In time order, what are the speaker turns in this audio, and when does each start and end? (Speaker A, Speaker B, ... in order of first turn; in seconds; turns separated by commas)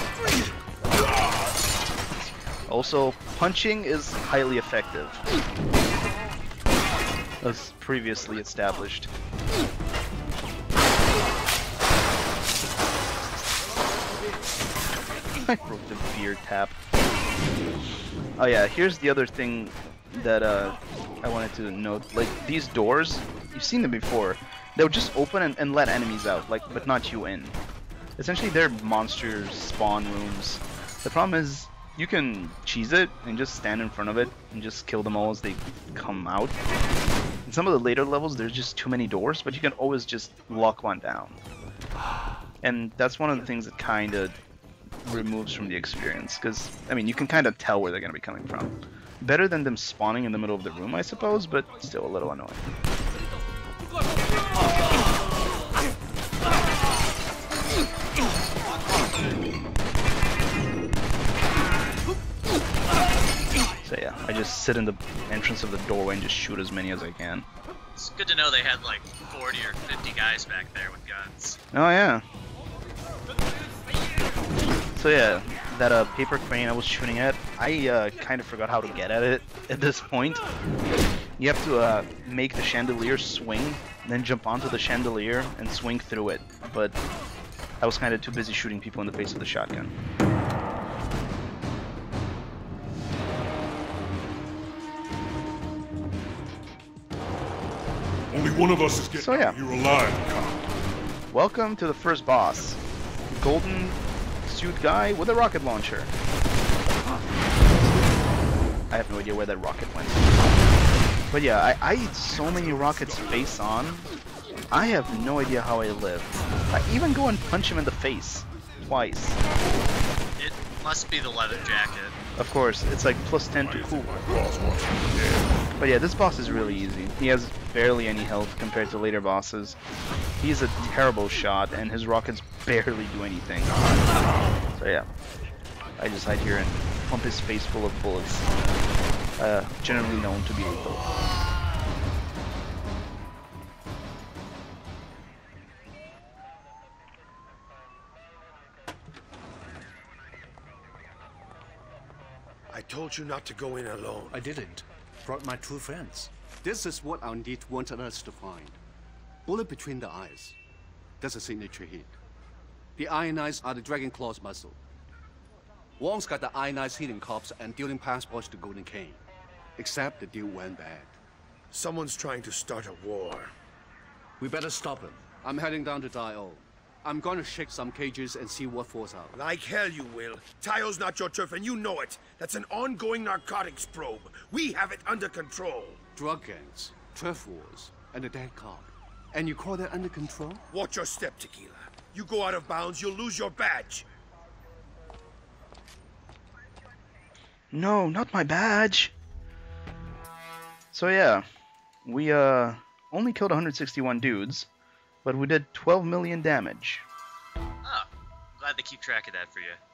Speaker A: 2.2-5.2, Speaker A: 7.4-9.1, Speaker A: 15.4-16.8, Speaker A: 18.4-27.6, Speaker A: 28.2-36.6, Speaker A: 37.5-41.4, Speaker A: 42.6-44.4, Speaker A: 45.0-52.7, Speaker A: 63.8-67.5, Speaker B: 68.0-71.6, Speaker A: 71.7-72.2, Speaker A: 74.9-80.4, Speaker A: 81.4-87.0, Speaker A: 87.8-89.9, Speaker C: 98.3-100.7, Speaker A: 99.2-99.6, Speaker A: 101.3-106.1, Speaker A: 108.9-110.3, Speaker A: 111.3-114.1, Speaker C: 112.3-113.5, Speaker A: 114.7-119.4, Speaker B: 120.4-122.2, Speaker A: 122.4-124.3, Speaker C: 123.6-125.6, Speaker A: 125.8-129.8, Speaker A: 130.4-134.0, Speaker A: 134.8-135.1, Speaker A: 136.0-138.5, Speaker A: 139.4-141.1, Speaker D: 152.7-154.4, Speaker E: 154.3-158.8, Speaker E: 159.4-160.6, Speaker E: 161.2-162.2, Speaker E: 163.0-164.8, Speaker E: 166.0-169.2, Speaker E: 169.8-171.2, Speaker D: 171.7-173.5, Speaker E: 174.4-179.4, Speaker D: 179.3-186.0, Speaker E: 186.2-190.6, Speaker D: 190.7-194.1, Speaker A: 197.7-199.2, Speaker A: 200.9-201.4, Speaker A: 202.1-204.7, Speaker A: 205.2-207.1, Speaker B: 208.6-209.8